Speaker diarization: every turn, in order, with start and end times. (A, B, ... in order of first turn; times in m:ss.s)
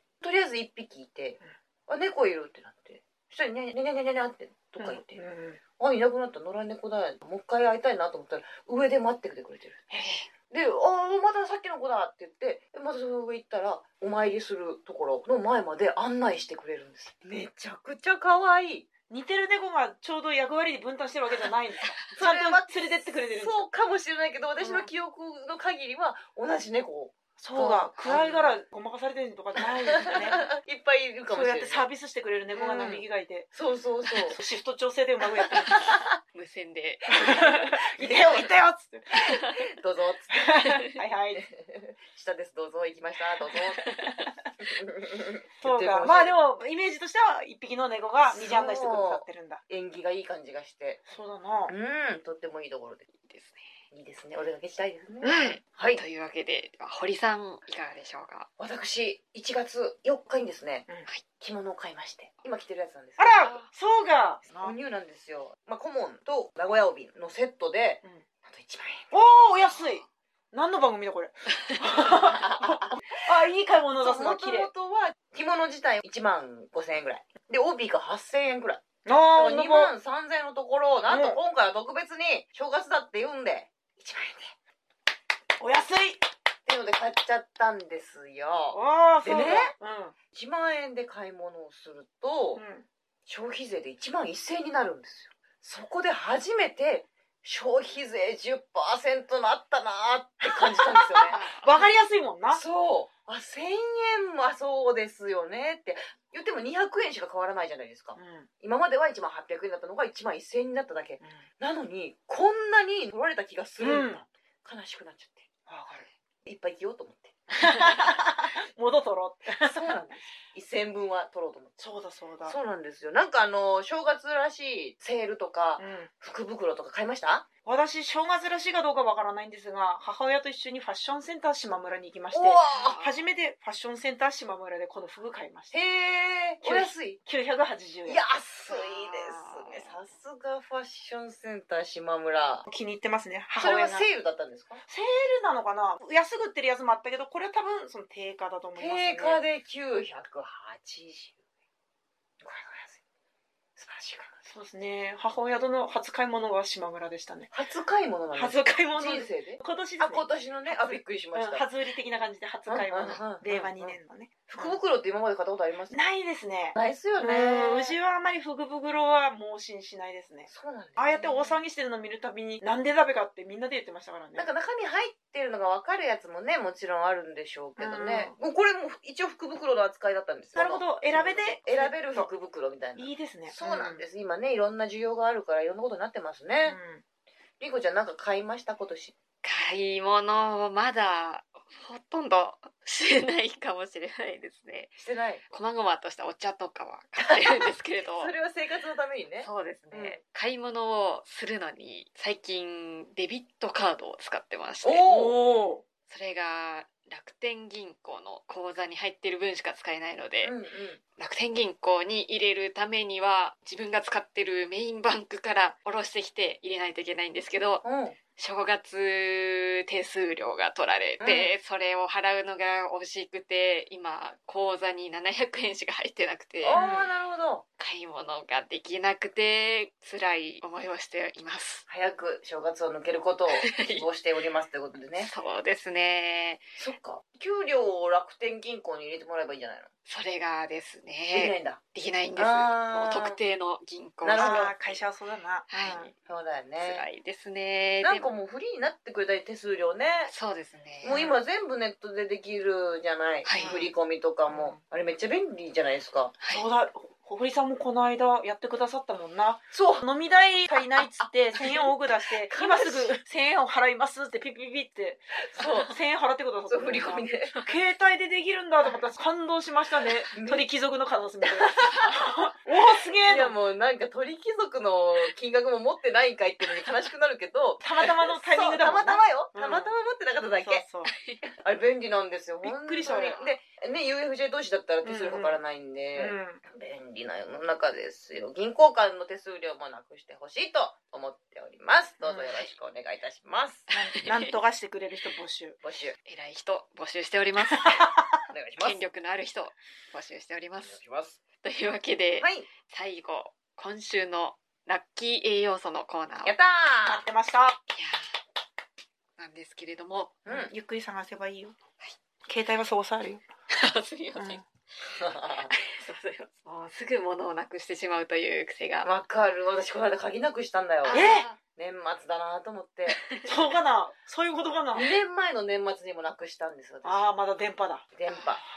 0:00.2-0:05.2 A
0:04.8-0:05.6 B
0:05.8-0:09.9 A
0:09.9-0:10.3 B
0:10.5-0:18.9 A
0:19.1-0:23.6 B
0:22.2-0:28.6 A
0:24.6-0:24.9 B
0:27.4-0:30.4 B
0:29.6-0:31.9 A
0:31.3-0:33.5 B
0:32.5-0:34.4 A
0:34.2-0:35.9 B
0:35.5-0:36.0 A
0:36.2-0:37.6 C
0:37.1-0:39.4 B
0:38.0-0:38.5 A
0:39.3-0:40.6 A
0:39.3-0:39.6 C
0:40.3-0:41.5 B
0:41.4-0:43.9 A
0:43.5-0:44.3 B
0:44.6-0:46.4 A
0:45.6-0:49.6 B
0:48.3-0:51.0 A
0:51.1-0:51.8 B
0:51.7-0:53.1 A
0:53.1-0:53.7 C
0:53.9-0:56.0 A
0:55.2-0:55.6 B
0:55.3-0:58.5 C
0:58.6-1:00.9 A
1:01.4-1:03.6 A
1:03.2-1:04.8 B
1:03.4-1:03.7 C
1:04.6-1:09.1 A
1:09.1-1:14.7 B
1:09.8-1:10.0 C
1:12.0-1:13.1 A
1:14.0-1:24.6 A
1:19.0-1:19.9 B
1:21.1-1:21.4 B
1:25.6-1:26.2 B
1:26.7-1:29.8 A
1:28.7-1:30.2 B
1:30.3-1:32.6 A
1:32.6-1:32.9 B
1:33.3-1:41.4 A
1:40.4-1:42.6 B
1:41.3-1:41.7 C
1:42.5-1:55.5 A
1:48.2-1:48.5 B
1:53.8-1:54.2 B
1:55.7-1:56.1 B
1:56.4-1:57.8 A
1:57.6-2:00.0 B
1:59.6-2:01.8 A
2:01.8-2:02.6 B
2:02.4-2:07.5 A
2:05.8-2:06.1 B
2:07.6-2:15.8 B
2:12.3-2:13.1 A
2:12.7-2:13.0 C
2:15.7-2:17.2 A
2:16.6-2:18.2 B
2:18.1-2:22.7 A
2:18.7-2:20.0 C
2:22.7-2:24.1 B
2:23.6-2:24.8 A
2:24.9-2:29.4 B
2:28.8-2:31.4 A
2:32.4-2:33.0 A
2:33.8-2:34.5 A
2:34.5-2:37.5 B
2:37.5-2:41.6 A
2:38.4-2:44.8 B
2:42.7-2:44.0 A
2:44.5-2:46.0 A
2:45.9-2:54.5 B
2:46.8-2:48.0 A
2:50.5-2:51.6 A
2:54.4-3:06.8 A
2:57.8-2:58.4 B
3:00.6-3:02.3 B
3:03.0-3:04.0 B
3:06.7-3:07.0 B
3:07.6-3:09.2 A
3:09.4-3:15.0 C
3:15.0-3:15.4 A
3:15.5-3:18.3 C
3:17.3-3:20.2 A
3:19.4-3:25.1 C
3:24.8-3:25.4 A
3:25.0-3:25.8 B
3:26.1-3:30.6 C
3:30.4-3:31.0 A
3:31.2-3:37.8 C
3:37.8-3:38.2 A
3:38.4-3:47.1 C
3:41.2-3:41.5 A
3:46.6-3:47.6 A
3:47.8-3:51.9 C
3:51.9-3:55.3 A
3:53.5-3:54.1 C
3:55.2-3:56.8 C
3:56.8-3:59.9 A
4:00.1-4:05.0 C
4:01.3-4:01.8 A
4:02.4-4:03.4 A
4:04.2-4:04.7 A
4:04.4-4:06.1 B
4:05.7-4:06.1 C
4:06.2-4:07.0 A
4:06.8-4:08.3 C
4:08.0-4:10.3 A
4:10.3-4:11.2 C
4:11.0-4:16.4 A
4:11.1-4:11.4 B
4:13.4-4:13.8 C
4:13.5-4:13.9 B
4:14.5-4:14.8 B
4:16.4-4:16.7 C
4:16.5-4:33.6 B
4:19.7-4:20.0 A
4:21.2-4:23.2 A
4:25.4-4:26.0 A
4:26.7-4:27.6 A
4:30.4-4:30.7 A
4:31.4-4:32.2 A
4:32.9-4:40.8 A
4:37.8-4:40.0 B
4:40.6-4:41.1 B
4:41.1-4:41.4 C
4:41.5-4:53.9 A
4:42.6-4:43.4 B
4:43.1-4:43.5 C
4:45.0-4:45.6 B
4:46.2-4:46.6 B
4:52.2-4:52.6 B
4:53.9-4:55.8 B
4:54.1-4:54.6 C
4:55.8-4:56.2 A
4:56.3-4:58.1 C
4:57.9-4:58.1 B
4:58.5-4:59.0 A
4:58.8-5:01.0 C
5:00.8-5:01.4 A
5:01.6-5:06.6 C
5:02.4-5:02.7 A
5:06.4-5:07.2 A
5:07.0-5:07.8 B
5:07.9-5:08.4 C
5:09.4-5:10.4 C
5:10.4-5:10.7 A
5:10.5-5:11.8 B
5:12.5-5:13.4 B
5:13.7-5:14.7 C
5:15.0-5:15.7 A
5:15.7-5:19.1 C
5:19.0-5:23.2 A
5:21.0-5:21.6 C
5:21.1-5:21.5 B
5:23.1-5:23.7 C
5:23.4-5:25.1 B
5:24.9-5:27.3 A
5:27.0-5:28.1 B
5:28.2-5:28.6 A